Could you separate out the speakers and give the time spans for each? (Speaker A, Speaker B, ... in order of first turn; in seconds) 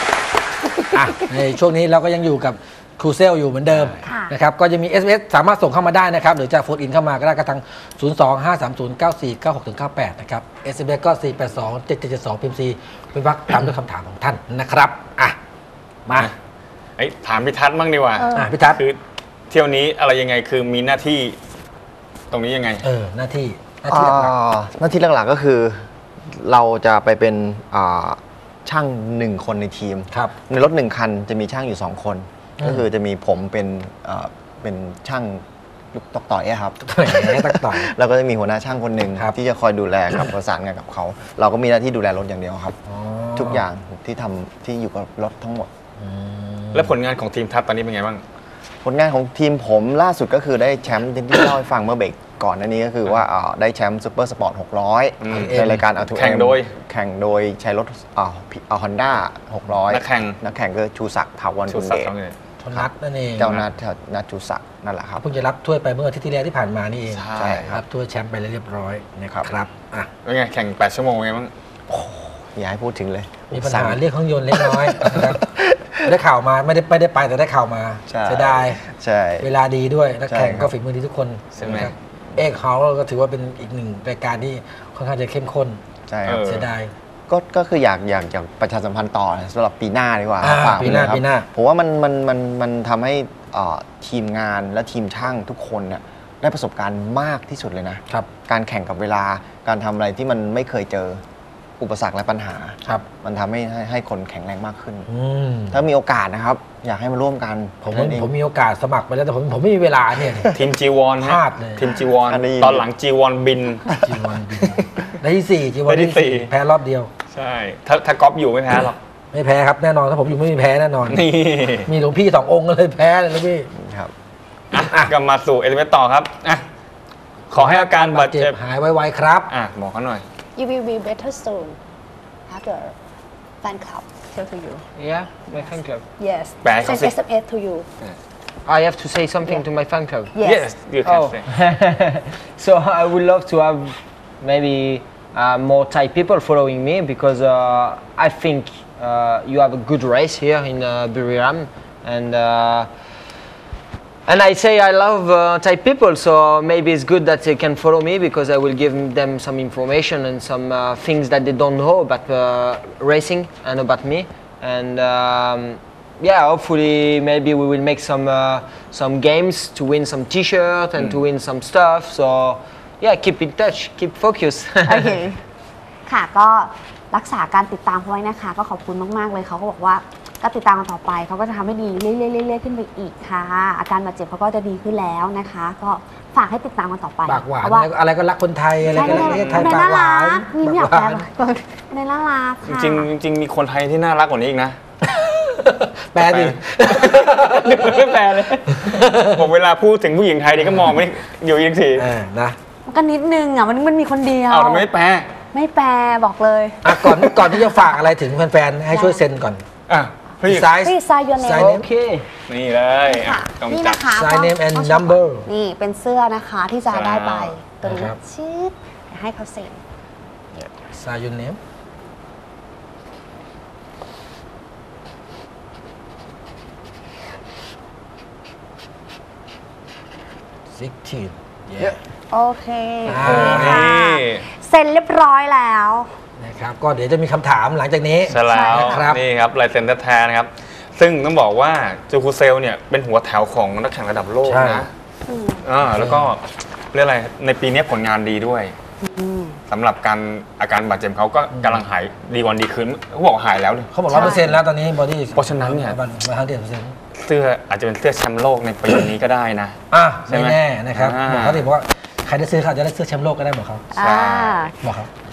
Speaker A: 0.9-15.4, 16.1-16.3, 18.3-18.8, 22.8-24.3, 32.6-32.9, 36.8-37.9, 42.9-43.6, 46.0-46.9, 55.3-55.9, 62.6-63.5, 65.2-70.1, 71.9-72.2, 73.5-75.4, 76.0-78.8, 79.4-85.8, 86.4-86.9, 90.4-91.5, 105.1-105.8, 107.8-110.5, 111.2-111.9, 113.9-117.1, 119.3-121.3, 121.8-123.7, 124.7-125.1, 127.5-129.5, 187.2-191.3, 195.0-198.1, 198.7-199.4, 200.6-201.0, 201.9-202.6, 206.8-209.6, 210.4-211.9, 214.1-215.5, 217.8-218.2, 220.9-221.6, 230.7-232.0, 233.0-233.9, 236.4-239.2, 244.4-244.9, 245.9-246.3, 251.5-251.8, 253.9-256.9, 259.9-263.9, 264.8-265.1
Speaker B: 4.0-4.3, 18.2-18.8, 130.6-131.8, 132.5-132.9, 133.6-134.8, 136.2-137.9, 140.3-140.7, 174.8-175.4, 176.1-187.9, 188.8-193.1, 202.8-204.9, 205.5-207.9, 208.9-209.2, 210.8-211.7, 213.1-219.8, 232.3-236.1, 238.4-239.0, 245.3-245.6, 249.0-249.6, 254.1-254.6, 263.9-264.7
Speaker C: 17.0-19.0, 19.5-21.4, 22.3-22.8, 46.7-48.2, 55.2-56.7, 59.9-60.4, 61.7-62.4, 67.1-67.7, 70.2-71.5, 81.5-81.9, 86.2-86.7, 110.5-113.9, 115.9-116.5, 117.3-119.0, 121.1-121.9, 124.7-126.6, 127.5-128.6, 129.5-130.2, 136.6-137.1, 140.4-141.4, 188.9-189.8, 192.6-194.8, 196.3-202.1, 204.5-205.3, 209.9-210.7, 212.5-214.0, 216.9-217.5, 233.1-234.4, 238.3-244.9, 245.6-248.7, 249.7-254.5, 255.3-256.0, 257.1-261.6, 264.0-264.6
Speaker D: 23.9-42.8, 43.3-45.7, 48.8-62.1, 62.7-65.2, 67.4-67.8, 72.5-74.0, 74.5-76.1, 78.1-79.5, 80.3-80.7, 86.1-86.5, 87.3-101.2, 101.8-105.1, 105.7-108.3, 112.2-112.9, 123.7-124.1
Speaker E: 134.9-136.0, 138.6-140.3, 141.0-152.9, 154.2-175.2, 211.5-212.3